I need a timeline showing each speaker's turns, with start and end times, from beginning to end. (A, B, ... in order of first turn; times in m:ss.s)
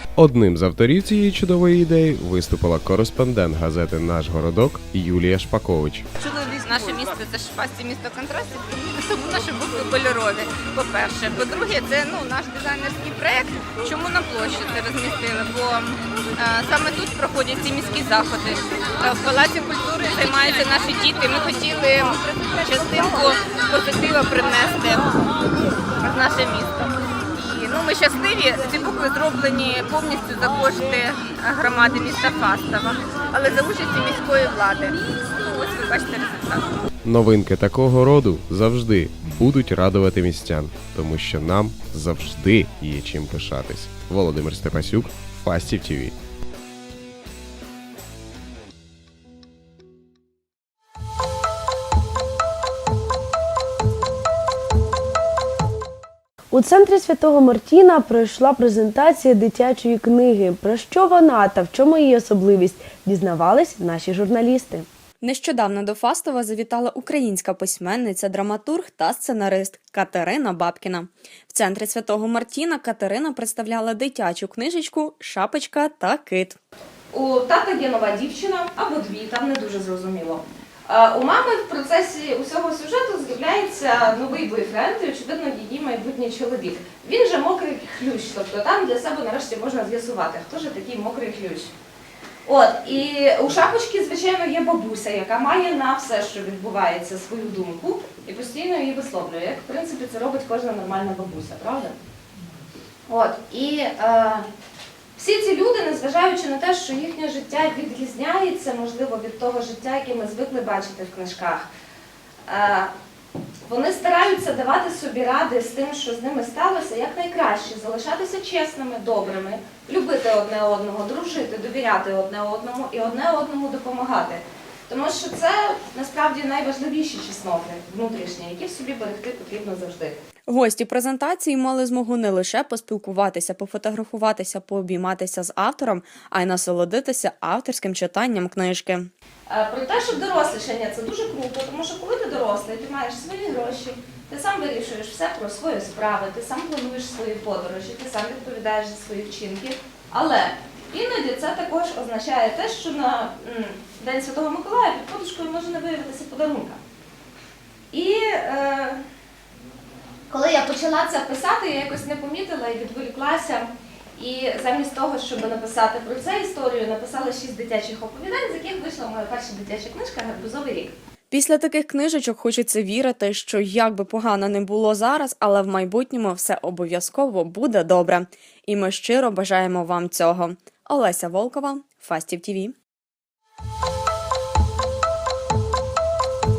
0:00.2-0:06.0 A
0:06.4-0:13.3 B
0:13.9-0:15.8 B
0:16.4-0:22.1 B
0:22.6-0:24.9 B
0:26.0-0:26.8 B
0:27.4-0:34.9 B
0:35.4-0:36.6 B
0:37.0-0:46.1 A
0:56.5-1:04.8 C
1:05.2-1:16.6 D
1:17.1-1:31.7 E
1:32.4-1:42.0 E
1:43.1-1:44.4 E
1:45.2-1:51.7 E
1:52.5-1:52.9 E
1:53.6-2:10.2 E
2:10.5-2:19.1 D
2:19.5-2:36.8 E
2:37.9-2:39.0 E
2:40.3-2:50.9 E
2:51.3-3:02.7 D